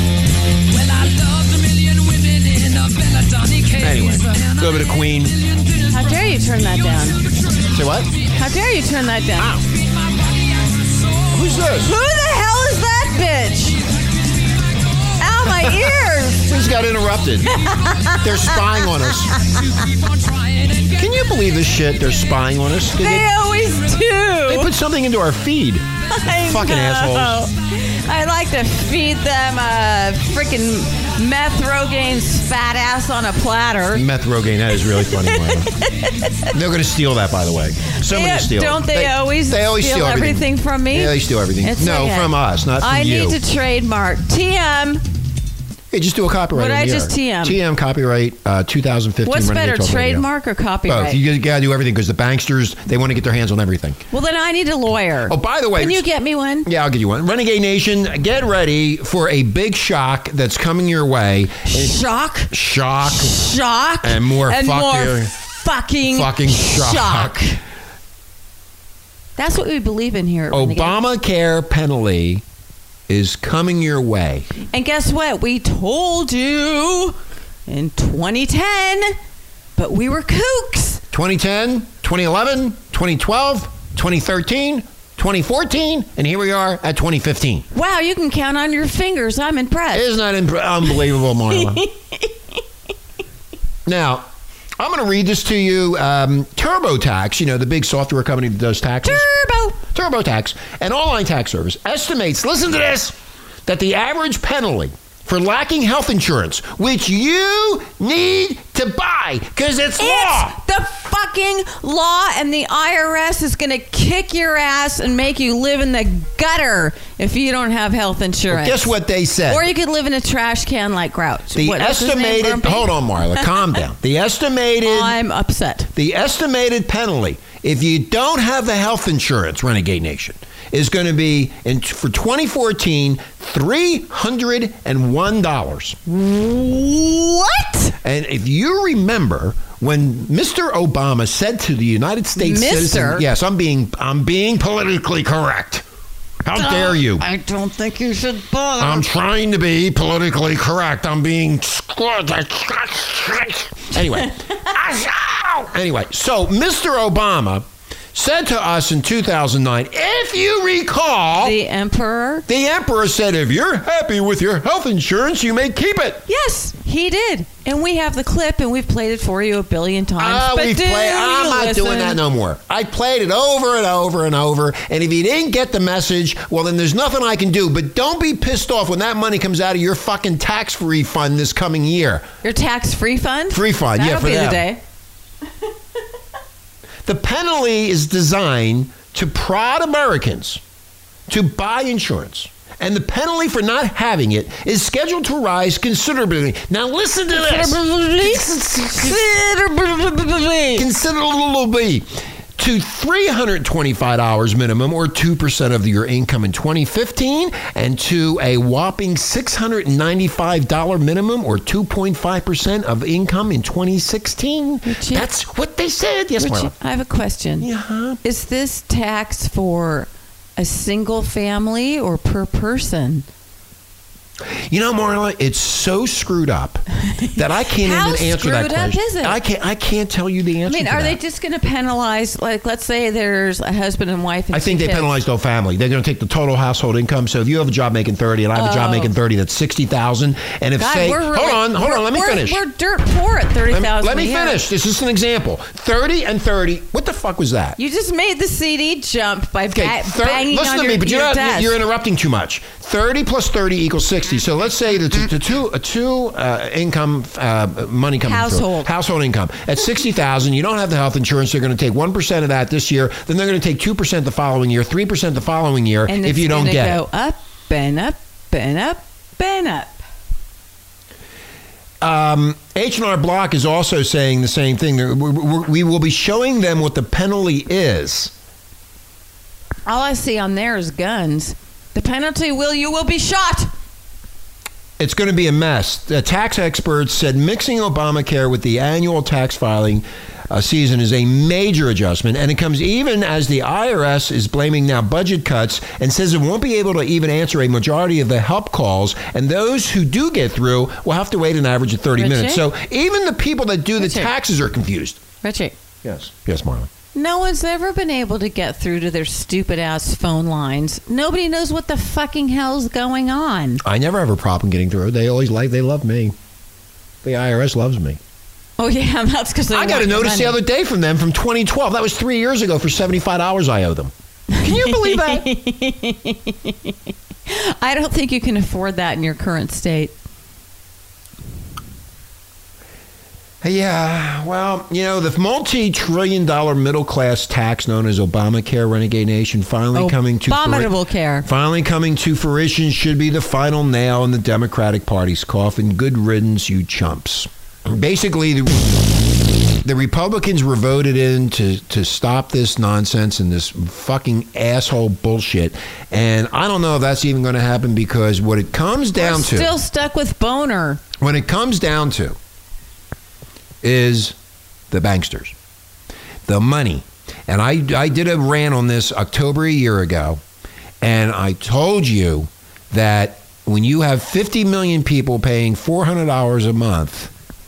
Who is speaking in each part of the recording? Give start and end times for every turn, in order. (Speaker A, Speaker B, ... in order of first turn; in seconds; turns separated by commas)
Speaker A: 0.7-8.4, Speaker B: 3.8-5.3, Speaker C: 5.9-7.2, Speaker B: 7.7-8.1, Speaker C: 8.3-9.6, Speaker B: 9.4-9.6, Speaker A: 9.6-11.8, Speaker B: 11.3-11.9, Speaker C: 11.8-13.8, Speaker A: 13.6-15.2, Speaker C: 15.2-16.5, Speaker B: 16.5-17.6, Speaker C: 17.4-19.4, Speaker A: 17.5-18.6, Speaker B: 18.2-19.3, Speaker A: 19.3-22.4, Speaker B: 20.9-23.3, Speaker C: 23.0-24.7, Speaker A: 23.5-24.0, Speaker B: 24.5-27.4, Speaker C: 26.1-34.0, Speaker B: 33.9-35.7, Speaker C: 34.9-36.5, Speaker B: 36.5-43.4, Speaker C: 38.1-45.0, Speaker B: 45.9-50.2, Speaker C: 46.5-47.6, Speaker C: 49.2-51.2, Speaker B: 50.9-54.0, Speaker C: 54.1-56.7, Speaker B: 55.3-56.0, Speaker B: 56.6-63.4, Speaker C: 61.6-62.5, Speaker C: 63.0-67.6, Speaker B: 64.0-65.3, Speaker B: 66.0-67.4, Speaker C: 69.4-70.9, Speaker B: 70.5-72.4, Speaker B: 73.1-74.5, Speaker C: 74.7-79.2, Speaker C: 79.8-81.0, Speaker B: 81.1-87.7, Speaker C: 87.7-90.1, Speaker B: 89.9-91.8, Speaker C: 91.8-92.3, Speaker B: 93.8-94.3, Speaker B: 94.8-99.3, Speaker C: 99.0-99.8, Speaker B: 99.8-110.5, Speaker C: 110.0-118.9, Speaker B: 118.5-119.7, Speaker C: 119.5-123.5, Speaker B: 121.5-125.2, Speaker C: 124.8-125.9, Speaker B: 125.9-136.0, Speaker C: 136.1-137.9, Speaker B: 138.0-145.8, Speaker C: 142.3-143.2, Speaker B: 146.4-147.2, Speaker C: 146.5-149.1, Speaker B: 148.8-161.6, Speaker C: 161.4-162.4, Speaker B: 162.5-166.2, Speaker C: 166.3-172.2, Speaker B: 170.2-182.3, Speaker C: 182.4-184.8, Speaker B: 183.5-184.6, Speaker B: 187.0-190.6, Speaker B: 191.3-199.2, Speaker C: 197.3-200.8, Speaker B: 200.7-216.7, Speaker C: 214.8-215.3, Speaker C: 216.4-217.7, Speaker B: 217.6-218.2, Speaker C: 218.2-223.2, Speaker B: 224.5-226.8, Speaker B: 227.3-231.2, Speaker C: 227.8-229.4, Speaker C: 230.6-235.1, Speaker B: 234.5-242.6, Speaker C: 238.5-239.1, Speaker C: 240.8-244.6, Speaker B: 243.7-247.8, Speaker C: 247.8-251.8, Speaker B: 249.7-267.0, Speaker C: 258.2-258.9, Speaker C: 266.1-270.0, Speaker B: 272.0-278.3, Speaker C: 279.9-283.7, Speaker B: 285.0-305.2, Speaker C: 302.2-302.6, Speaker C: 304.0-304.3, Speaker C: 305.4-305.7, Speaker B: 306.0-306.9, Speaker C: 307.1-313.8, Speaker B: 313.8-316.3, Speaker B: 317.2-318.2, Speaker C: 318.8-320.6, Speaker B: 319.7-325.5, Speaker C: 324.5-326.9, Speaker C: 327.5-330.1, Speaker B: 333.6-340.9, Speaker C: 339.9-341.4, Speaker B: 341.4-359.7, Speaker C: 359.1-361.0, Speaker B: 361.2-362.4, Speaker B: 363.8-364.4, Speaker B: 364.9-365.5, Speaker B: 366.4-370.4, Speaker B: 371.0-377.3